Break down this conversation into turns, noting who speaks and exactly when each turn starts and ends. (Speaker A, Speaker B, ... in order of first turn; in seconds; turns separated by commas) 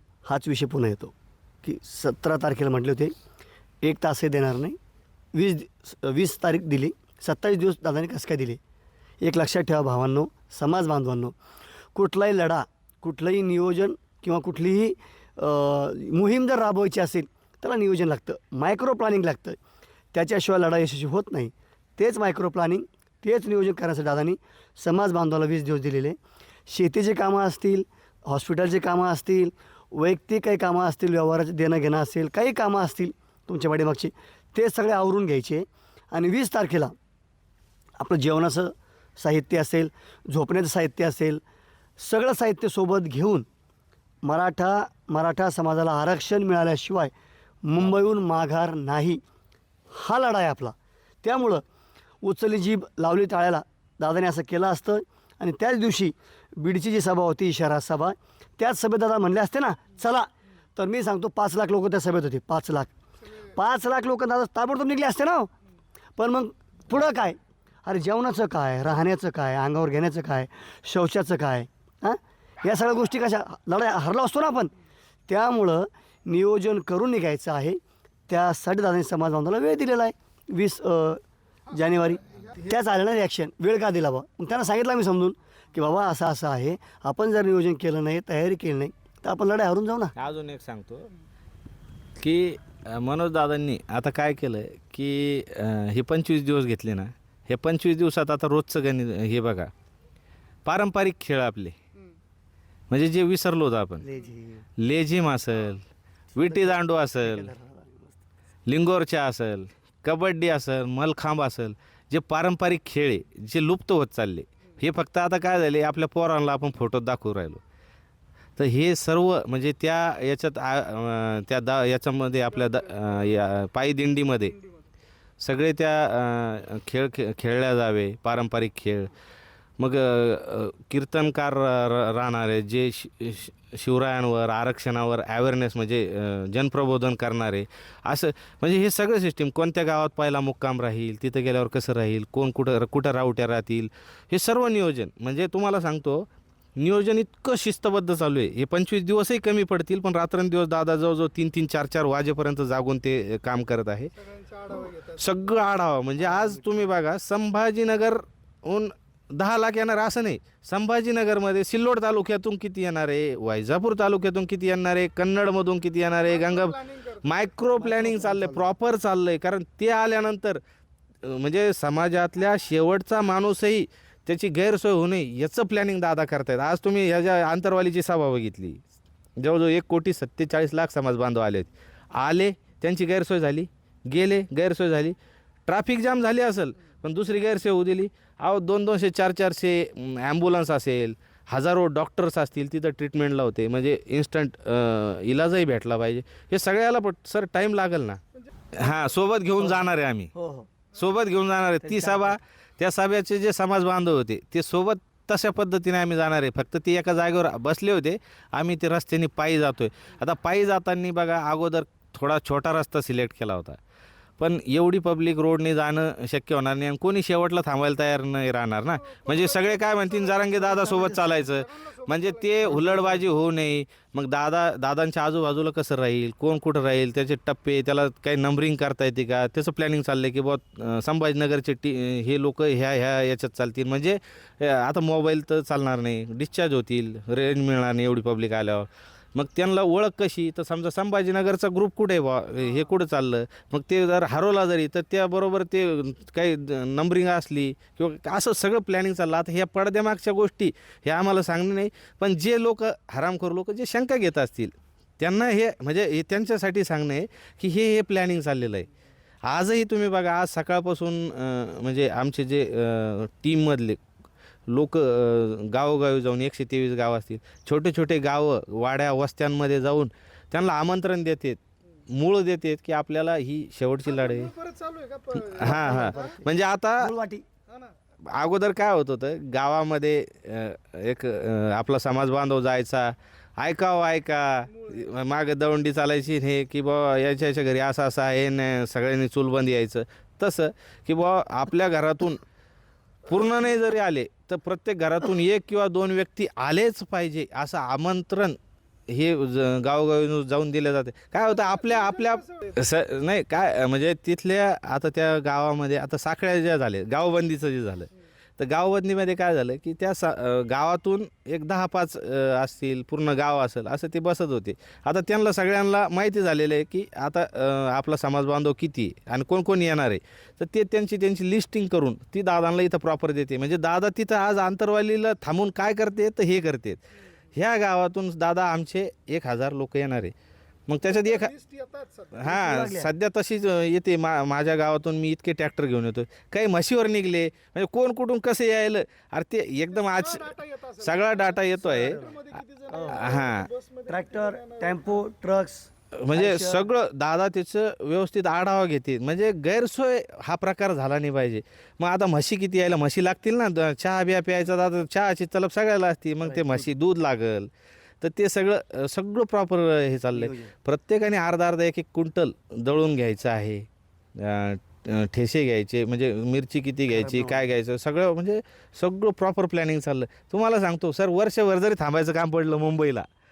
Speaker A: 0.3-3.1, Speaker A: 3.8-4.8, Speaker A: 5.3-8.6, Speaker A: 9.2-11.3, Speaker A: 11.9-19.6, Speaker A: 20.1-36.9, Speaker A: 38.0-41.4, Speaker A: 42.0-43.5, Speaker A: 44.2-47.1, Speaker A: 47.6-49.2, Speaker A: 49.9-51.6, Speaker A: 52.2-65.5, Speaker A: 66.2-74.7, Speaker A: 75.3-90.1, Speaker B: 90.2-91.1, Speaker B: 92.2-99.7, Speaker B: 100.7-101.8, Speaker B: 102.9-104.1, Speaker A: 104.0-104.7, Speaker B: 104.8-105.8, Speaker B: 106.4-107.5, Speaker A: 106.4-108.3, Speaker B: 108.7-117.6, Speaker B: 118.6-124.6, Speaker B: 125.4-129.1, Speaker B: 129.8-154.1, Speaker C: 154.2-155.3, Speaker B: 155.1-170.6, Speaker C: 166.3-167.2, Speaker A: 167.8-168.7, Speaker B: 171.2-178.8, Speaker B: 179.4-198.2, Speaker B: 198.7-200.3, Speaker A: 199.6-200.7, Speaker B: 200.9-213.8, Speaker A: 201.8-202.4, Speaker B: 214.4-258.9, Speaker C: 219.1-221.0, Speaker A: 220.7-221.2, Speaker C: 221.5-222.7, Speaker A: 222.7-223.2, Speaker B: 259.5-264.0, Speaker B: 264.7-274.5, Speaker C: 274.1-276.3, Speaker B: 275.4-277.1, Speaker A: 275.6-277.4, Speaker B: 278.3-292.4, Speaker B: 293.3-298.6, Speaker B: 299.1-327.0, Speaker C: 301.6-302.7, Speaker B: 327.5-330.3, Speaker B: 330.9-331.5, Speaker C: 331.1-332.5, Speaker B: 332.3-342.2, Speaker A: 332.4-333.1, Speaker C: 339.9-345.0, Speaker A: 341.8-342.4, Speaker A: 342.9-343.3, Speaker B: 343.1-343.7, Speaker A: 344.1-346.9, Speaker B: 346.2-357.7, Speaker A: 356.4-356.9, Speaker B: 358.2-373.3, Speaker A: 360.3-360.7, Speaker A: 367.1-367.7